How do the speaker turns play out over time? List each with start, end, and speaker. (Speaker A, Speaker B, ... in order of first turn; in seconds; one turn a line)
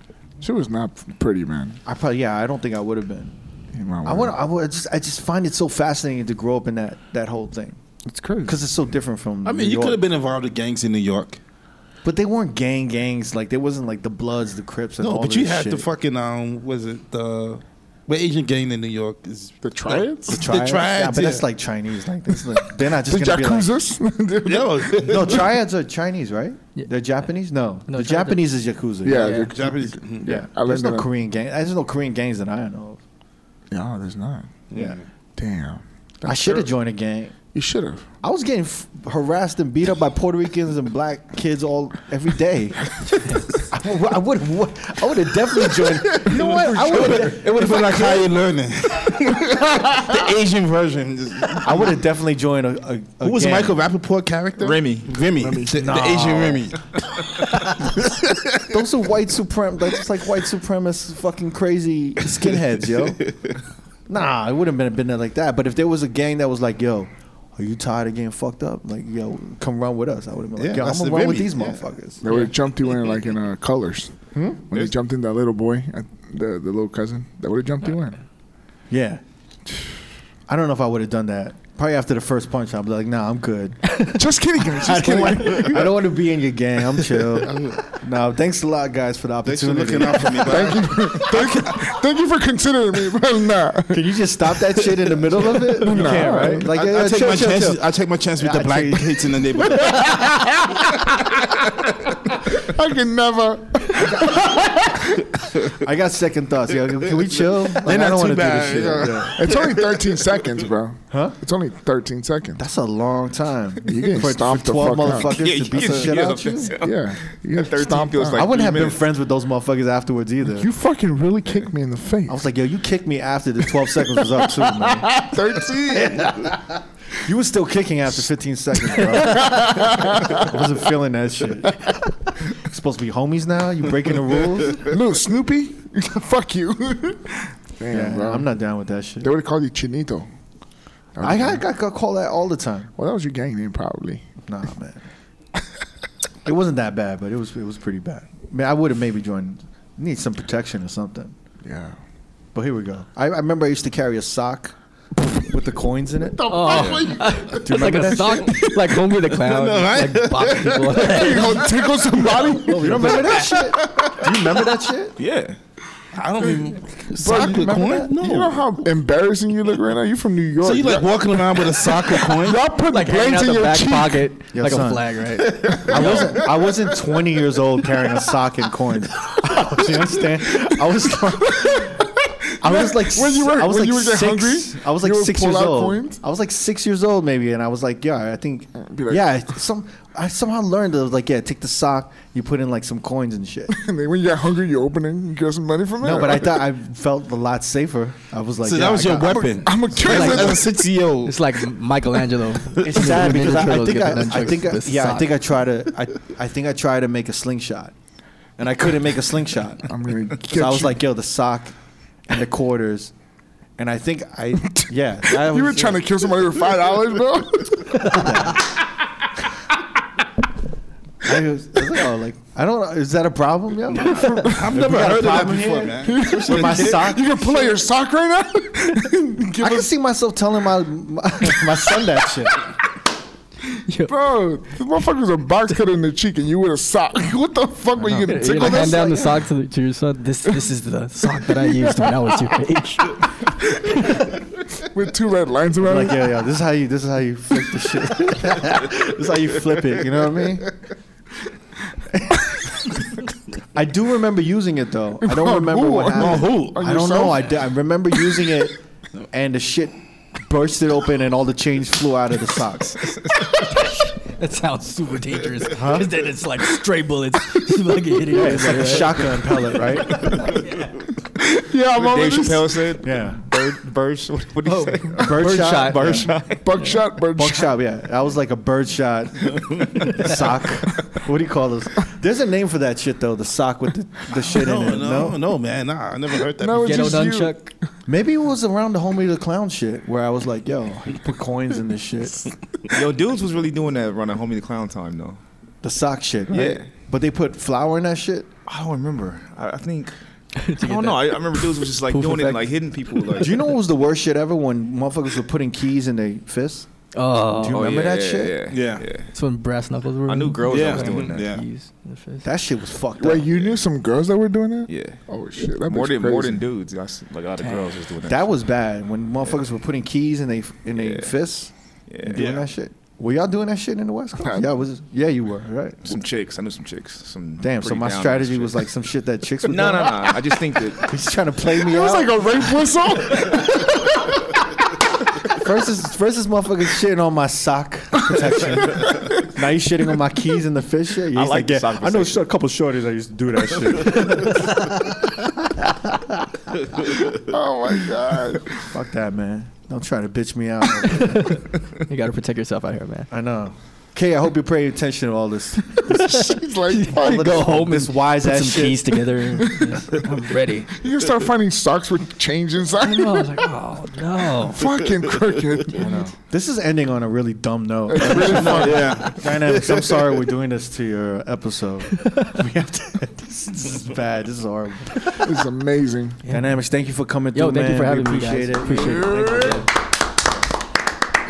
Speaker A: 0.4-1.8
Speaker B: 1.9-3.4
Speaker A: 3.7-4.4
Speaker B: 4.0-7.8
Speaker A: 8.1-8.5
Speaker B: 8.4-10.0
Speaker C: 9.4-11.4
Speaker B: 12.0-15.9
Speaker C: 15.0-21.5
Speaker A: 19.6-20.5
Speaker B: 20.3-23.7
Speaker A: 23.0-25.5
Speaker C: 24.4-25.4
Speaker B: 25.0-29.4
Speaker D: 27.9-29.5
Speaker A: 29.0-31.1
Speaker C: 29.5-30.3
Speaker B: 30.2-33.0
Speaker A: 33.7-34.6
Speaker C: 34.7-35.0
Speaker B: 34.7-35.0
Speaker A: 35.4-36.7
Speaker B: 36.2-37.4
Speaker A: 37.5-38.1
Speaker B: 38.2-48.3
Speaker C: 45.7-52.0
Speaker B: 51.6-53.8
Speaker C: 53.2-57.0
Speaker E: 54.6-55.1
Speaker A: 55.4-55.8
Speaker B: 55.7-56.7
Speaker C: 57.8-58.8
Speaker B: 58.7-63.2
Speaker C: 63.2-63.6
Speaker B: 64.1-72.3
Speaker C: 70.6-71.8
Speaker A: 72.2-74.1
Speaker B: 74.3-74.6
Speaker A: 74.7-78.2
Speaker B: 78.9-79.2
Speaker B: 80.5-92.0
Speaker A: 83.9-86.1
Speaker A: 87.1-87.8
Speaker C: 89.4-91.8
Speaker A: 90.4-96.7
Speaker B: 93.9-97.8
Speaker C: 95.9-100.2
Speaker D: 96.3-96.6
Speaker B: 98.3-99.5
Speaker A: 99.8-101.6
Speaker A: 102.4-105.4
Speaker B: 105.7-109.5
Speaker C: 107.5-109.9
Speaker A: 109.3-112.6
Speaker B: 111.1-111.4
Speaker B: 112.6-116.8
Speaker A: 113.8-115.4
Speaker E: 115.3-119.0
Speaker A: 116.8-118.5
Speaker B: 118.3-120.7
Speaker A: 120.5-122.4
Speaker B: 122.3-125.2
Speaker A: 123.8-126.5
Speaker B: 125.8-134.9
Speaker A: 128.9-130.7
Speaker A: 134.8-138.5
Speaker B: 137.9-139.3
Speaker A: 139.2-140.3
Speaker A: 141.1-141.6
Speaker B: 141.2-142.9
Speaker A: 143.0-144.3
Speaker B: 144.5-145.0
Speaker B: 146.4-151.3
Speaker A: 151.6-152.0
Speaker B: 152.5-154.7
Speaker B: 155.4-156.9
Speaker A: 156.3-158.6
Speaker D: 156.5-161.7
Speaker E: 156.7-157.1
Speaker B: 157.6-158.5
Speaker C: 159.3-161.3
Speaker A: 161.0-163.5
Speaker B: 162.2-165.2
Speaker D: 162.5-163.7
Speaker C: 163.5-164.8
Speaker E: 165.2-165.6
Speaker C: 166.1-168.6
Speaker A: 166.4-174.3
Speaker C: 170.6-172.6
Speaker D: 172.9-176.3
Speaker B: 174.6-175.1
Speaker C: 175.6-176.4
Speaker B: 175.7-193.8
Speaker A: 176.0-176.2
Speaker A: 180.6-186.2
Speaker A: 188.8-189.3
Speaker A: 193.7-196.7
Speaker B: 196.0-200.4
Speaker C: 198.6-201.4
Speaker A: 199.5-200.8
Speaker D: 200.0-205.3
Speaker B: 202.8-207.9
Speaker B: 208.6-209.9
Speaker A: 209.8-211.0
Speaker B: 210.5-211.7
Speaker B: 212.3-213.1
Speaker B: 213.8-216.1
Speaker A: 214.6-218.5
Speaker B: 218.0-218.7
Speaker B: 221.2-227.6
Speaker A: 223.9-224.8
Speaker C: 224.2-227.1
Speaker A: 226.0-229.9
Speaker B: 229.6-232.6
Speaker A: 231.4-232.1
Speaker D: 233.9-234.2
Speaker A: 234.1-239.4
Speaker B: 238.0-239.0
Speaker D: 238.2-244.4
Speaker A: 241.4-242.4
Speaker A: 244.7-246.4
Speaker B: 245.8-250.8
Speaker B: 252.1-252.5
Speaker B: 253.7-263.2
Speaker A: 255.2-258.5
Speaker C: 256.1-256.8
Speaker D: 263.4-270.9
Speaker B: 265.7-266.1
Speaker B: 268.3-270.5
Speaker A: 271.4-272.9
Speaker E: 271.9-276.9
Speaker B: 273.0-273.4
Speaker D: 274.6-277.0
Speaker B: 275.1-276.3
Speaker A: 276.4-277.7
Speaker B: 277.4-285.4
Speaker C: 284.5-287.3
Speaker A: 286.6-287.7
Speaker D: 286.8-287.7
Speaker B: 288.1-292.6
Speaker E: 292.9-295.4
Speaker B: 295.8-298.5
Speaker E: 296.5-296.9
Speaker E: 298.7-300.1
Speaker D: 300.6-302.7
Speaker E: 300.8-303.6
Speaker B: 303.4-306.9
Speaker D: 307.1-307.9
Speaker B: 307.6-308.6
Speaker E: 307.6-309.3
Speaker C: 308.7-309.1
Speaker D: 309.3-312.5
Speaker E: 310.3-311.5
Speaker C: 310.6-311.6
Speaker B: 312.4-313.6
Speaker A: 313.1-316.6
Speaker E: 314.9-315.2
Speaker E: 315.9-318.5
Speaker B: 318.3-321.7
Speaker E: 320.9-321.3
Speaker E: 322.1-322.5
Speaker B: 322.2-326.0
Speaker C: 322.4-322.7
Speaker E: 326.0-328.8
Speaker B: 327.6-330.4
Speaker E: 329.6-331.1
Speaker B: 331.0-332.7
Speaker A: 331.7-334.4
Speaker B: 335.4-347.2
Speaker E: 341.3-342.4
Speaker A: 347.4-348.9
Speaker B: 348.9-351.6
Speaker D: 351.1-353.3
Speaker B: 353.3-356.6
Speaker A: 356.1-357.9
Speaker D: 356.9-360.9
Speaker B: 357.1-359.2
Speaker A: 359.5-360.2
Speaker A: 360.9-363.7
Speaker D: 363.0-364.8
Speaker A: 364.6-366.3
Speaker B: 365.9-375.5
Speaker A: 368.1-369.3
Speaker C: 368.2-370.3
Speaker A: 375.4-376.4
Speaker D: 376.4-376.7
Speaker B: 376.5-379.8
Speaker D: 377.5-379.9
Speaker A: 378.9-379.8